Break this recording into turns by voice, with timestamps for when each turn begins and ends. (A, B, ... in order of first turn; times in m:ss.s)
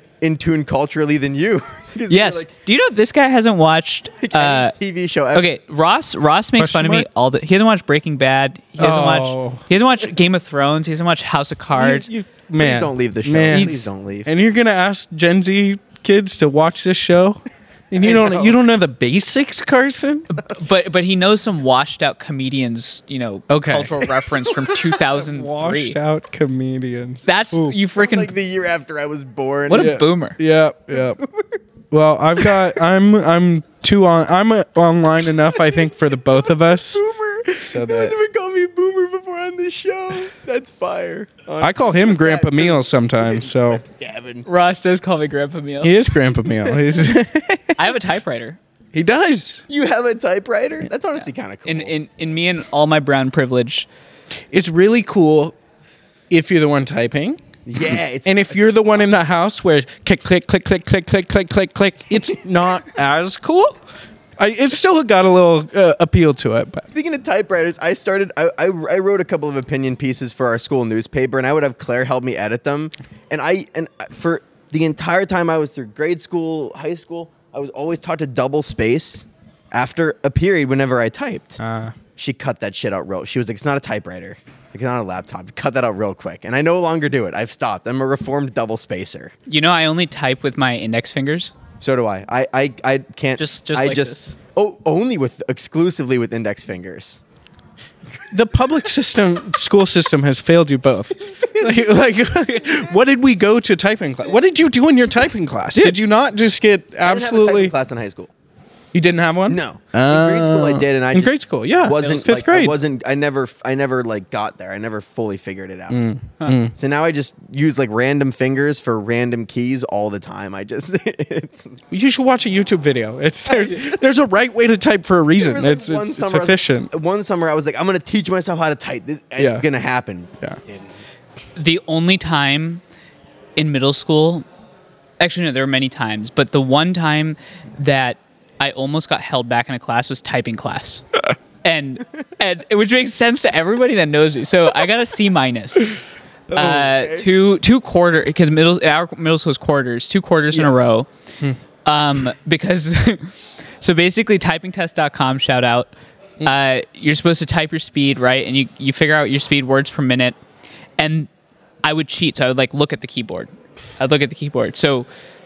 0:00.2-0:02.5 A
0:02.1-0:04.7 B
0:04.2-0:05.5 A
0:05.3-0:12.1 B
0:06.6-0:07.1 C
0:08.8-0:09.6 C
0:11.8-0:20.3 C
0:12.6-0:14.3 A
0:13.5-0:13.8 B
0:18.0-0:18.6 A
0:20.4-0:26.0 B
0:23.5-0:24.1 C
0:25.2-0:27.8 C
0:27.2-0:28.3 B
0:27.9-0:30.0 A
0:29.7-0:30.4 B
0:29.7-0:31.2 C
0:30.9-0:31.6 A
0:31.9-0:37.0 C
0:32.4-0:32.7 A
0:35.4-0:35.9 A
0:36.8-0:44.4 A
0:37.6-0:38.2 C
0:41.6-0:43.8 C
0:44.5-0:45.9 B
0:45.8-0:47.9 C
0:47.8-0:48.6 B
0:48.9-0:49.6 C
0:49.7-0:51.9 A
0:51.6-0:53.9 B
0:54.5-0:55.5 C
0:56.3-1:03.8 C
0:57.6-0:58.9 A
1:04.4-1:06.8 C
1:06.9-1:21.6 A
1:21.6-1:21.9 C
1:22.2-1:29.3 A
1:29.5-1:31.5 B
1:31.8-1:37.2 A
1:33.4-1:34.3 B
1:38.3-1:47.7 C
1:47.0-1:48.3 A
1:48.9-1:52.8 C
1:49.5-1:56.0 A
1:55.9-1:56.7 C
1:56.7-2:01.8 A
2:01.9-2:06.9 C
2:05.4-2:10.8 A
2:09.4-2:09.6 C
2:11.6-2:12.8 B
2:13.6-2:14.4 B
2:15.2-2:26.0 B
2:26.5-2:27.2 A
2:26.5-2:31.1 B
2:31.8-2:40.4 B
2:41.0-2:41.3 B
2:41.8-2:45.1 B